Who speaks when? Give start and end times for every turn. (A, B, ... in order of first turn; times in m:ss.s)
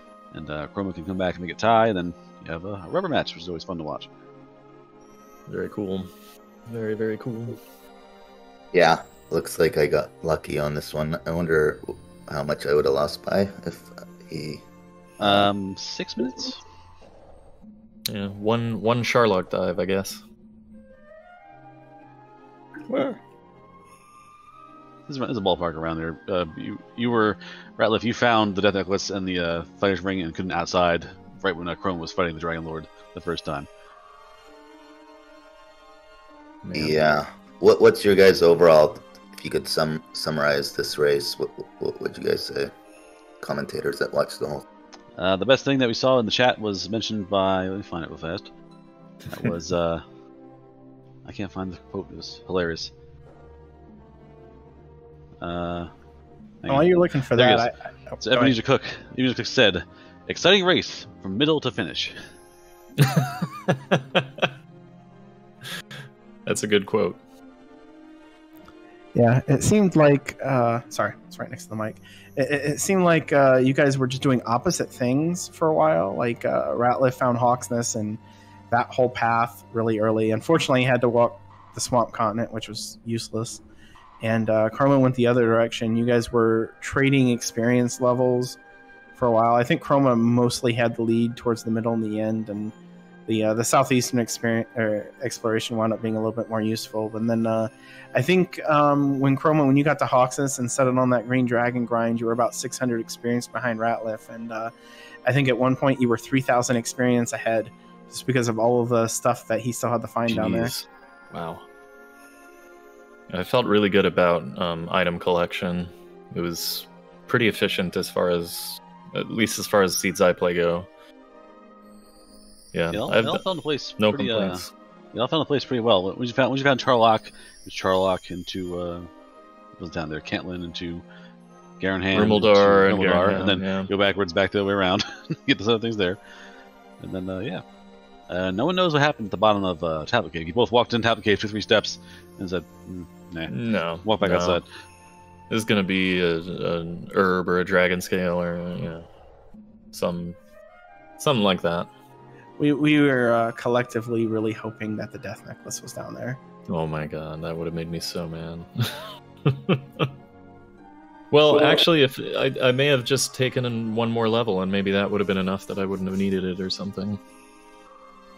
0:00.3-0:04.1 A
0:05.5-0:06.1 B
0:06.6-0:07.6 B
0:08.7-0:14.6 C
0:15.2-0:16.6 A
0:15.2-0:15.5 C
0:18.1-0:20.2 B
0:22.9-0:23.2 B
0:25.1-0:33.7 A
0:36.6-0:37.0 B
0:36.7-0:42.7 C
0:43.4-0:44.6 C
0:45.2-0:48.5 A
0:49.3-0:50.0 A
0:51.2-0:52.9 A
0:55.4-0:55.9 A
0:56.6-0:57.7 A
0:56.6-0:58.6 D
0:58.2-1:02.2 A
1:03.0-1:04.5 B
1:06.4-1:07.2 B
1:09.1-1:23.6 D
1:24.2-1:28.6 D
1:29.1-1:32.7 D
1:33.3-1:44.7 D
1:45.2-1:50.7 D
1:50.3-1:51.6 B
1:53.3-2:00.9 B
2:02.7-2:03.4 B
2:02.9-2:09.1 A
2:04.0-2:04.7 B
2:09.8-2:11.0 A
2:11.8-2:16.2 A
2:12.1-2:13.9 B
2:17.0-2:17.6 A
2:18.3-2:24.6 A
2:23.5-2:24.6 B
2:25.5-2:29.1 B
2:29.9-2:30.4 B
2:31.2-2:31.9 B
2:32.6-2:36.4 D
2:36.7-2:40.1 B
2:41.3-2:47.2 B